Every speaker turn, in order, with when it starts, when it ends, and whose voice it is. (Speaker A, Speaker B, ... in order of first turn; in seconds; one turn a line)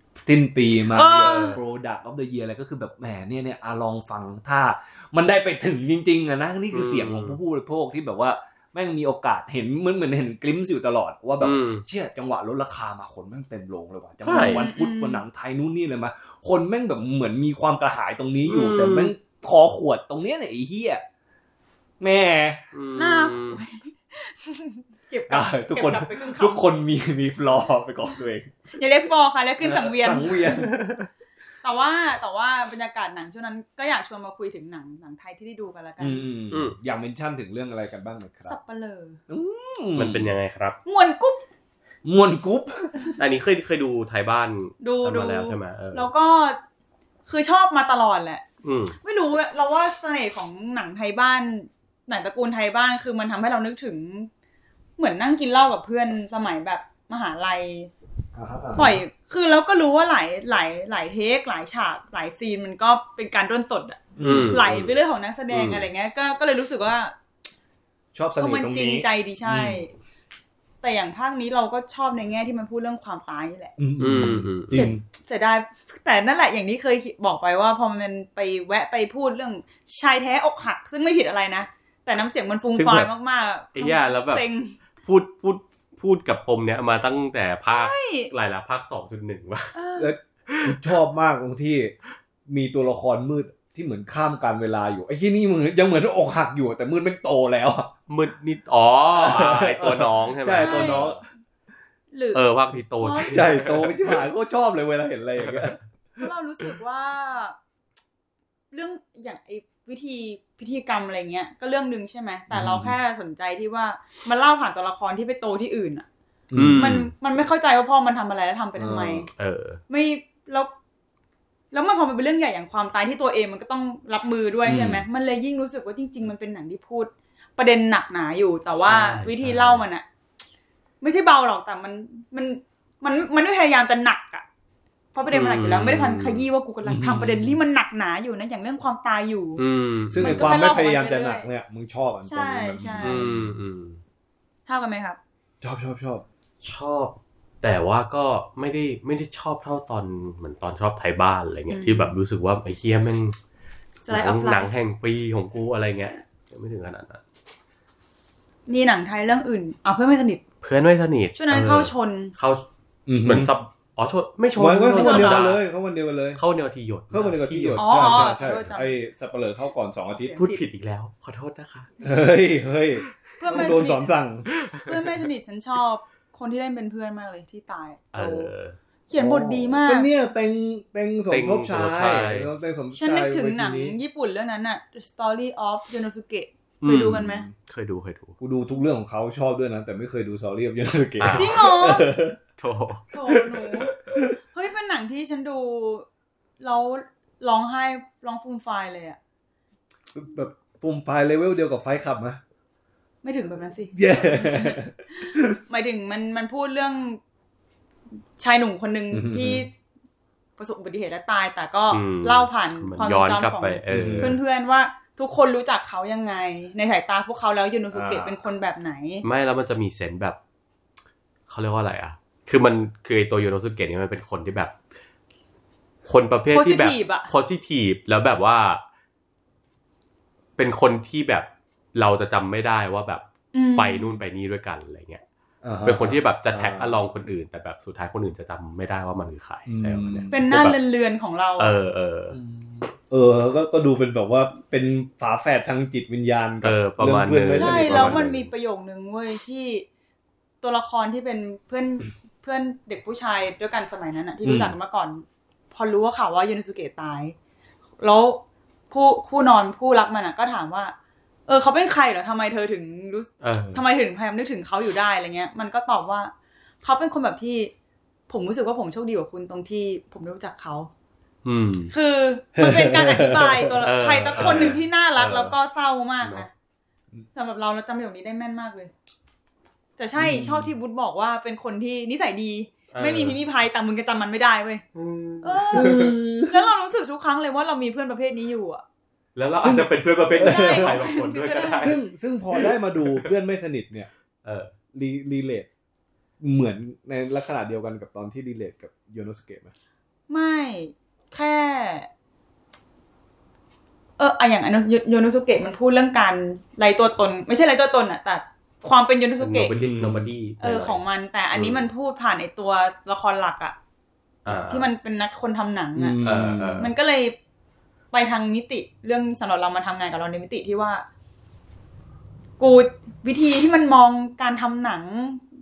Speaker A: 0.2-21.0
Speaker B: 0.9-1.6
Speaker C: 1.1-1.6
Speaker C: 6.7-7.4
Speaker C: 11.4-11.8
Speaker C: 14.2-14.7
Speaker B: 14.3-15.2
Speaker C: 18.5-19.1
Speaker A: 22.0-22.6
Speaker C: 22.7-23.6
Speaker B: 23.0-26.6
Speaker A: 25.3-28.6
Speaker B: 28.7-30.6
Speaker A: 29.6-30.8
Speaker B: 31.6-36.3
Speaker A: 36.0-38.6
Speaker C: 36.5-36.8
Speaker B: 38.5-39.2
Speaker A: 39.3-40.4
Speaker C: 40.0-40.8
Speaker B: 40.9-41.4
Speaker A: 42.0-43.1
Speaker C: 43.2-46.1
Speaker B: 44.8-46.6
Speaker B: 47.3-48.4
Speaker C: 48.6-49.0
Speaker B: 49.0-54.3
Speaker B: 55.0-57.9
Speaker A: 58.4-59.0
Speaker B: 58.8-67.1
Speaker A: 64.2-64.6
Speaker C: 64.2-65.0
Speaker C: 65.5-65.9
Speaker A: 68.1-69.9
Speaker B: 68.4-69.9
Speaker B: 70.8-73.8
Speaker A: 73.8-75.0
Speaker C: 74.0-74.8
Speaker B: 74.7-84.8
Speaker C: 82.8-83.1
Speaker C: 83.8-84.5
Speaker C: 85.0-89.8
Speaker B: 87.7-88.3
Speaker B: 89.8-90.1
Speaker A: 90.0-91.9
Speaker C: 90.5-91.0
Speaker A: 92.5-97.9
Speaker C: 98.1-101.2
Speaker A: 99.1-101.2
Speaker B: 100.5-101.1
Speaker B: 102.1-102.4
Speaker C: 102.3-104.2
Speaker B: 103.0-103.6
Speaker A: 103.3-106.2
Speaker C: 105.4-105.7
Speaker B: 106.2-107.6
Speaker B: 108.7-116.1
Speaker A: 112.5-113.0
Speaker A: 116.5-117.0
Speaker C: 116.5-117.1
Speaker B: 116.8-119.3
Speaker A: 118.8-119.3
Speaker C: 119.4-119.8
Speaker B: 119.9-120.7
Speaker B: 121.7-130.1
Speaker A: 124.6-125.0
Speaker C: 128.9-129.9
Speaker B: 131.0-134.5
Speaker B: 135.1-139.6
Speaker C: 135.3-136.4
Speaker A: 136.8-137.6
Speaker C: 139.6-140.5
Speaker A: 140.1-143.5
Speaker B: 140.2-141.5
Speaker B: 142.2-143.3
Speaker C: 143.0-144.0
Speaker B: 144.7-145.2
Speaker A: 145.6-146.2
Speaker C: 146.6-153.4
Speaker B: 151.7-152.1
Speaker B: 154.0-154.7
Speaker C: 154.1-157.2
Speaker B: 158.7-160.4
Speaker C: 160.6-162.6
Speaker B: 161.3-162.3
Speaker A: 163.1-163.5
Speaker C: 163.2-165.6
Speaker A: 164.6-166.4
Speaker B: 164.9-165.5
Speaker C: 166.4-168.7
Speaker A: 167.1-170.4
Speaker B: 167.8-169.0
Speaker B: 170.2-170.6
Speaker C: 170.4-171.9
Speaker A: 172.0-174.5
Speaker B: 173.4-174.1
Speaker C: 174.5-175.2
Speaker B: 174.9-178.5
Speaker C: 178.1-178.8
Speaker B: 179.1-180.1
Speaker A: 179.1-184.0
Speaker C: 181.3-182.5
Speaker B: 182.9-187.5
Speaker C: 186.8-188.4
Speaker A: 188.4-192.4
Speaker C: 191.2-191.7
Speaker B: 191.3-192.1
Speaker C: 192.6-193.1
Speaker B: 193.1-196.1
Speaker A: 193.3-194.4
Speaker B: 196.6-199.2
Speaker A: 200.1-202.4
Speaker B: 203.2-207.2
Speaker A: 203.9-205.6
Speaker B: 208.4-209.7
Speaker A: 209.1-209.7
Speaker B: 210.6-219.2
Speaker C: 211.9-214.4
Speaker A: 213.9-214.4
Speaker A: 217.9-218.4
Speaker C: 219.2-220.4
Speaker C: 221.5-224.8
Speaker C: 226.0-228.8
Speaker B: 226.5-227.3
Speaker C: 230.6-235.2
Speaker B: 233.5-234.2
Speaker A: 235.6-237.0
Speaker C: 235.8-240.8
Speaker A: 239.7-240.4
Speaker B: 240.3-241.8
Speaker C: 241.6-242.4
Speaker A: 242.3-248.3
Speaker C: 246.6-248.5
Speaker B: 247.5-249.9
Speaker B: 250.6-257.4
Speaker A: 254.4-254.8
Speaker B: 258.0-260.9
Speaker B: 261.5-267.7
Speaker C: 263.4-263.8
Speaker B: 268.3-270.9
Speaker C: 271.4-271.9
Speaker B: 271.9-276.5
Speaker A: 272.6-273.8
Speaker C: 273.8-275.5
Speaker A: 274.4-274.7
Speaker B: 277.4-278.9
Speaker B: 280.0-284.8
Speaker A: 280.1-280.7
Speaker C: 282.9-283.4
Speaker C: 284.9-286.1
Speaker B: 285.4-288.8
Speaker A: 285.7-286.7
Speaker C: 289.4-292.0
Speaker A: 289.6-291.1
Speaker B: 290.4-291.9
Speaker A: 291.8-294.1
Speaker C: 292.6-293.3
Speaker C: 294.4-294.7
Speaker A: 294.9-295.7
Speaker A: 296.4-299.7
Speaker B: 300.3-302.1
Speaker B: 304.2-309.7
Speaker C: 309.4-311.0
Speaker A: 309.8-310.3
Speaker B: 310.6-313.8
Speaker C: 311.5-311.9
Speaker C: 314.5-314.9
Speaker B: 314.5-316.2
Speaker A: 316.0-316.9
Speaker C: 316.2-316.9
Speaker B: 316.8-317.4
Speaker B: 318.1-321.0
Speaker B: 322.6-325.4